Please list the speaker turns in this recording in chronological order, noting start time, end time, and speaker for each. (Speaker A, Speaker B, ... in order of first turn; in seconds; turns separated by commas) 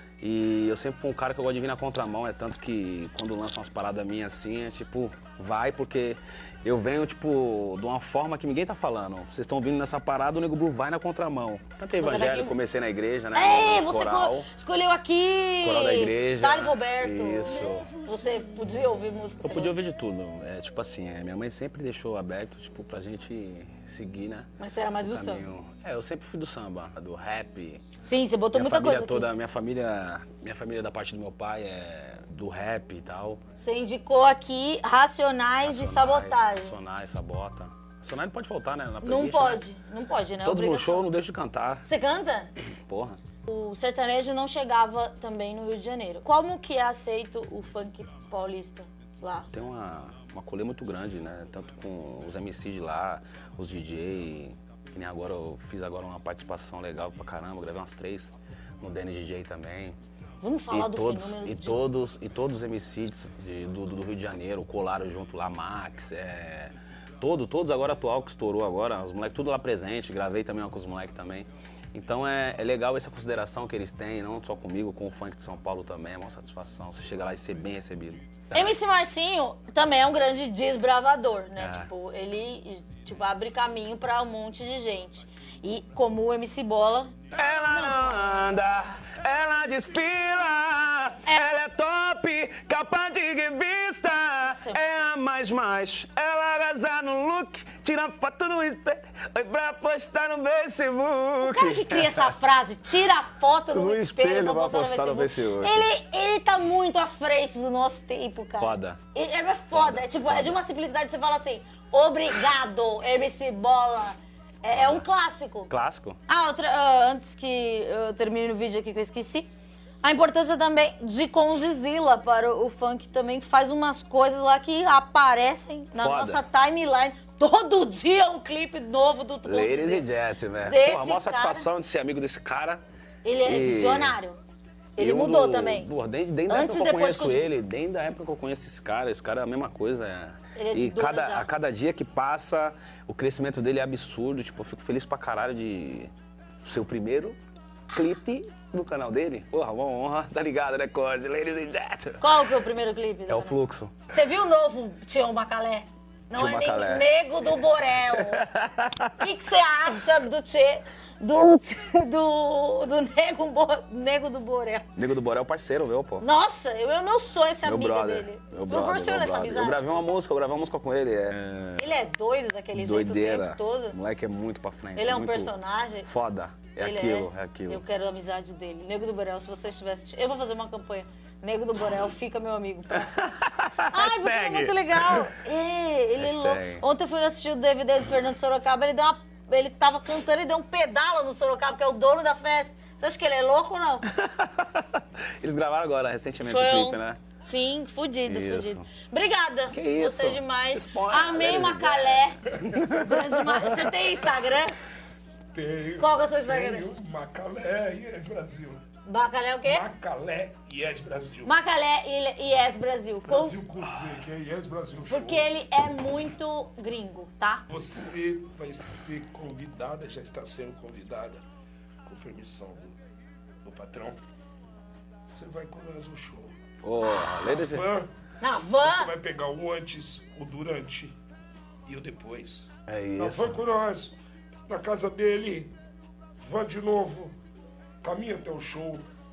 Speaker A: 0.2-14.5, Speaker B: 11.9-12.6, Speaker B: 13.3-19.8, Speaker A: 15.6-17.9, Speaker A: 19.4-27.8, Speaker B: 24.6-25.5, Speaker B: 28.0-29.3, Speaker A: 28.5-33.4, Speaker B: 33.6-36.8, Speaker A: 35.6-39.6, Speaker B: 39.0-41.1, Speaker A: 40.4-41.9, Speaker B: 41.8-42.5, Speaker A: 42.8-43.2, Speaker B: 43.5-49.5, Speaker A: 49.5-60.0, Speaker B: 60.4-61.9, Speaker A: 60.7-78.7, Speaker B: 78.5-88.4, Speaker A: 81.6-81.9, Speaker A: 87.3-102.3, Speaker B: 91.2-91.5, Speaker B: 94.4-94.8, Speaker B: 101.4-115.7, Speaker A: 103.7-105.9, Speaker A: 108.6-109.0, Speaker A: 109.7-110.6, Speaker A: 114.7-115.0, Speaker A: 115.7-116.2, Speaker B: 116.3-119.5, Speaker B: 120.0-130.1, Speaker A: 125.9-126.4, Speaker A: 129.4-132.8, Speaker B: 130.6-131.7, Speaker B: 133.2-134.4, Speaker A: 133.4-134.2, Speaker B: 135.0-135.9, Speaker A: 135.0-147.4, Speaker B: 136.5-137.5, Speaker B: 140.5-141.5, Speaker A: 147.9-152.5, Speaker B: 152.2-158.4, Speaker A: 153.3-154.0, Speaker A: 156.3-157.1, Speaker A: 158.0-159.2, Speaker B: 159.2-164.9, Speaker A: 164.9-166.2, Speaker B: 166.2-169.9, Speaker A: 167.6-171.9, Speaker B: 171.8-174.0, Speaker A: 172.7-175.5, Speaker B: 174.9-176.1, Speaker A: 176.0-177.8, Speaker B: 176.8-194.1, Speaker A: 182.9-185.4, Speaker A: 186.2-186.8, Speaker A: 194.1-197.2, Speaker B: 196.4-204.8, Speaker A: 198.2-198.8, Speaker A: 199.7-203.9, Speaker C: 205.5-208.8, Speaker B: 206.0-206.9, Speaker B: 209.0-209.8, Speaker C: 209.6-211.5, Speaker B: 211.4-213.6, Speaker C: 213.3-215.5, Speaker B: 215.1-217.6, Speaker C: 217.7-221.4, Speaker C: 222.1-222.9, Speaker C: 223.6-224.2, Speaker C: 225.3-226.6, Speaker A: 226.8-227.9, Speaker C: 227.2-228.1, Speaker B: 228.4-229.1, Speaker C: 228.8-231.2, Speaker C: 231.8-234.1, Speaker A: 232.9-233.6, Speaker C: 234.7-235.7, Speaker C: 236.4-237.3, Speaker C: 238.0-239.1